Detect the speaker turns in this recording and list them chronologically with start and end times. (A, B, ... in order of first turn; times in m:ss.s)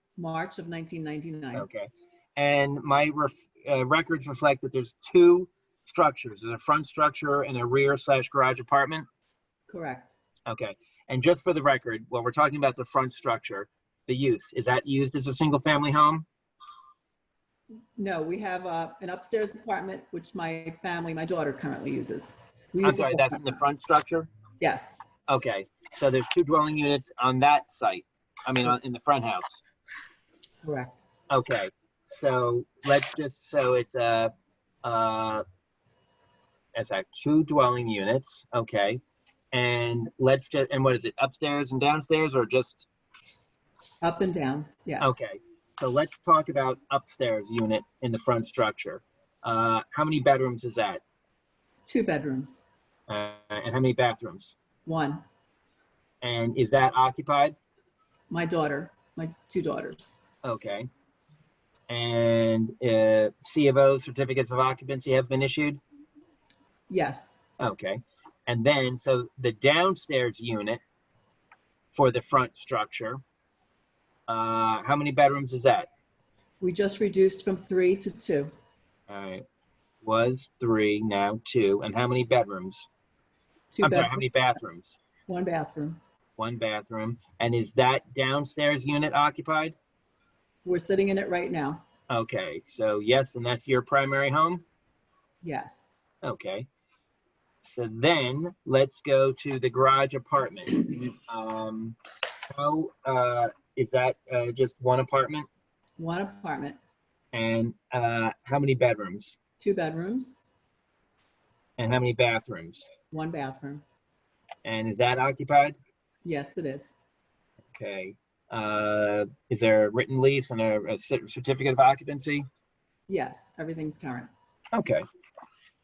0:00.2-0:01.6 A
0:01.5-0:09.0 B
0:09.7-0:10.2 A
0:10.5-0:16.2 B
0:18.0-0:23.7 A
0:22.8-0:24.3 B
0:24.6-0:25.0 A
0:25.3-0:29.6 B
0:30.6-0:31.0 A
0:31.3-0:34.3 B
0:34.8-0:35.4 B
0:36.7-0:39.0 B
0:39.5-0:42.9 B
0:44.0-0:45.2 A
0:45.0-0:51.0 B
0:51.8-0:52.7 A
0:53.1-0:54.6 B
0:54.8-0:55.2 A
0:56.2-0:57.6 B
0:58.3-1:00.2 A
1:00.4-1:00.9 B
1:01.9-1:05.8 B
1:06.9-1:07.4 A
1:07.6-1:10.8 B
1:11.9-1:13.2 B
1:14.3-1:15.9 B
1:16.6-1:18.5 A
1:19.1-1:19.4 B
1:20.0-1:22.9 B
1:23.7-1:24.2 A
1:23.8-1:25.0 B
1:25.3-1:26.0 A
1:26.4-1:29.8 B
1:30.6-1:31.8 A
1:32.1-1:34.6 B
1:35.4-1:35.9 A
1:36.2-1:36.7 B
1:37.6-1:42.0 B
1:42.5-1:45.5 B
1:46.0-1:46.8 A
1:47.3-1:49.4 B
1:49.6-1:50.4 A
1:51.8-1:52.9 B
1:53.1-1:53.8 A
1:54.6-1:55.8 B
1:56.2-1:57.0 A
1:57.7-2:02.4 B
2:03.1-2:04.3 A
2:04.7-2:05.0 B